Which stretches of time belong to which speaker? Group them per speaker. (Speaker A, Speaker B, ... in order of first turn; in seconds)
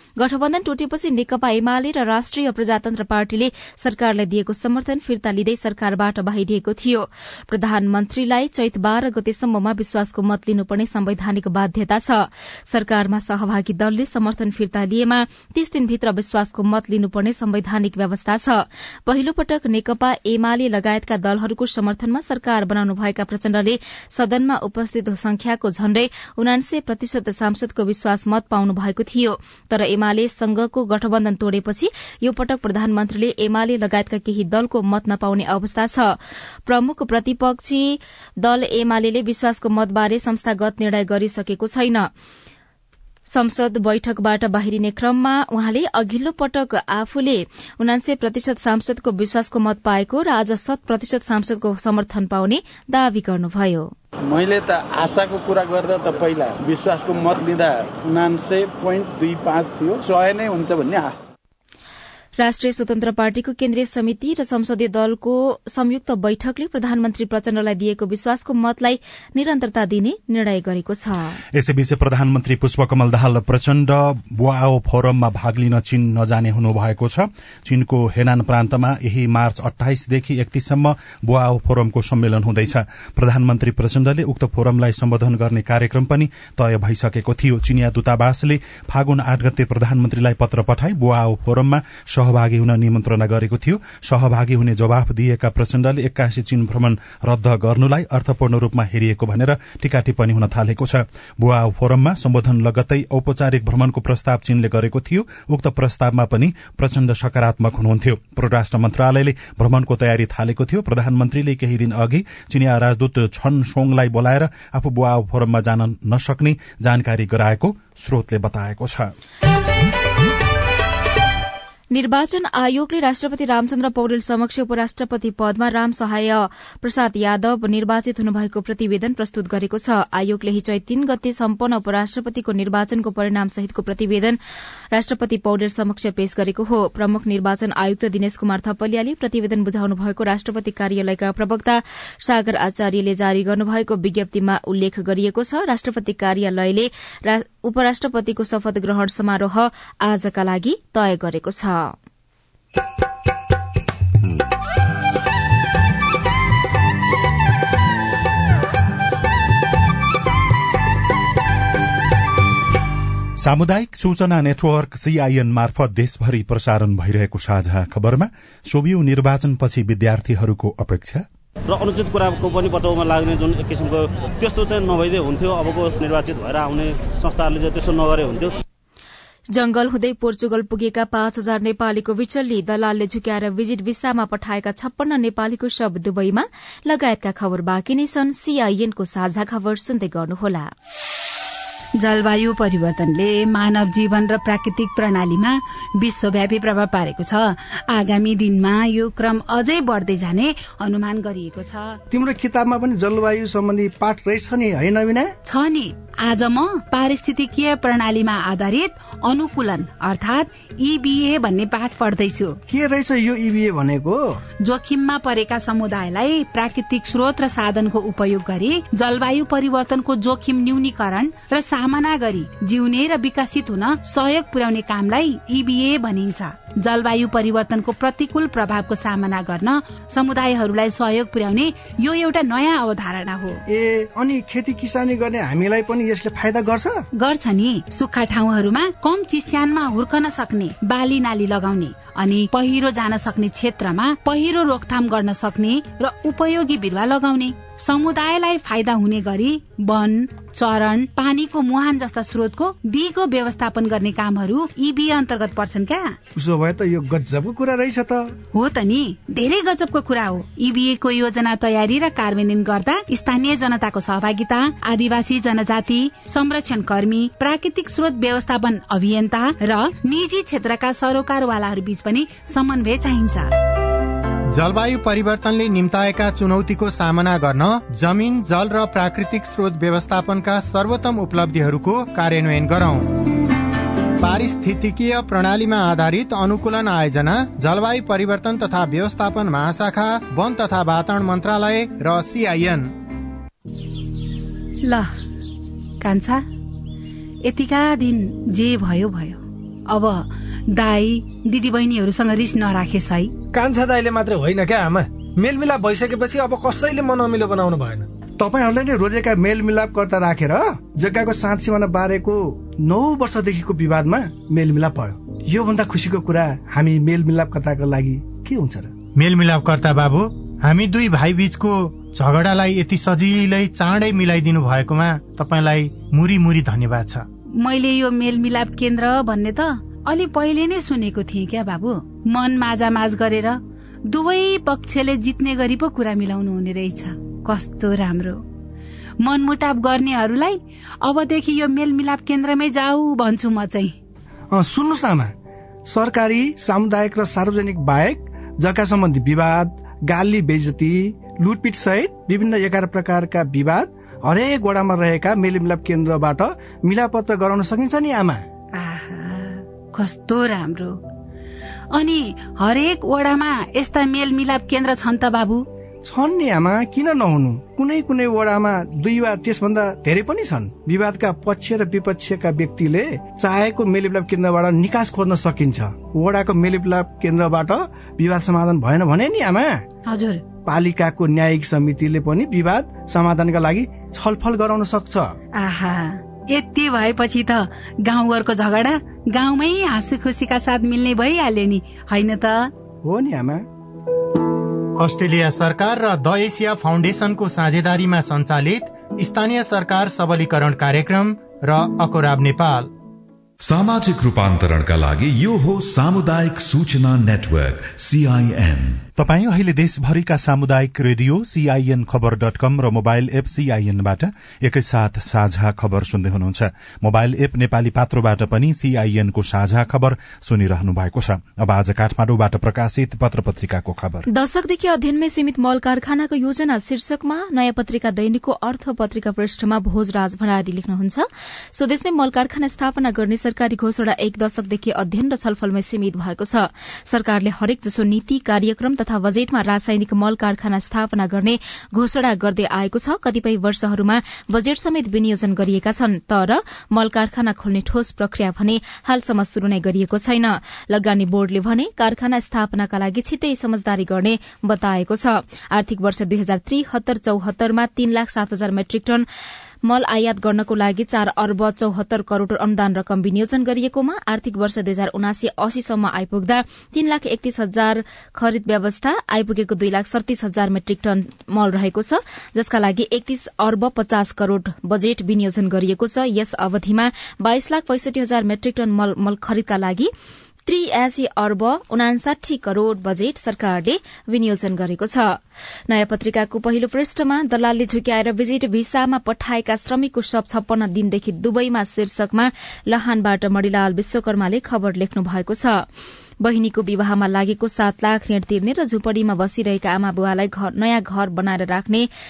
Speaker A: 0.2-36.1, 36.7-42.1, 43.3-53.9, 62.4-71.4, 121.9-134.4, 134.9-151.9, 179.5-190.7, 424.3-459.2, 459.9-480.1, 480.7-485.4, 485.9-495.8, 496.4-502.1
Speaker B: 54.3-61.3
Speaker C: 71.5-119.1, 163.4-171.2, 409.2-424.3
Speaker D: 171.7-178.5
Speaker E: 192.0-202.0, 205.4-212.6, 214.6-233.6, 237.1-256.2, 258.5-273.5, 294.8-295.1, 296.0-296.4, 297.4-303.4, 327.6-338.4, 339.2-343.9, 358.8-361.0, 361.9-365.7, 380.1-380.4, 385.6-392.7
Speaker F: 202.1-205.3, 212.7-214.4, 233.7-237.0, 256.4-258.4, 308.4-318.9, 344.5-345.3, 345.9-358.4, 366.0-379.8, 380.7-385.3, 393.0-393.7
Speaker G: 274.5-283.2, 284.2-292.9, 319.2-327.3, 395.0-402.9
Speaker H: 303.5-308.1
Speaker I: 403.6-409.0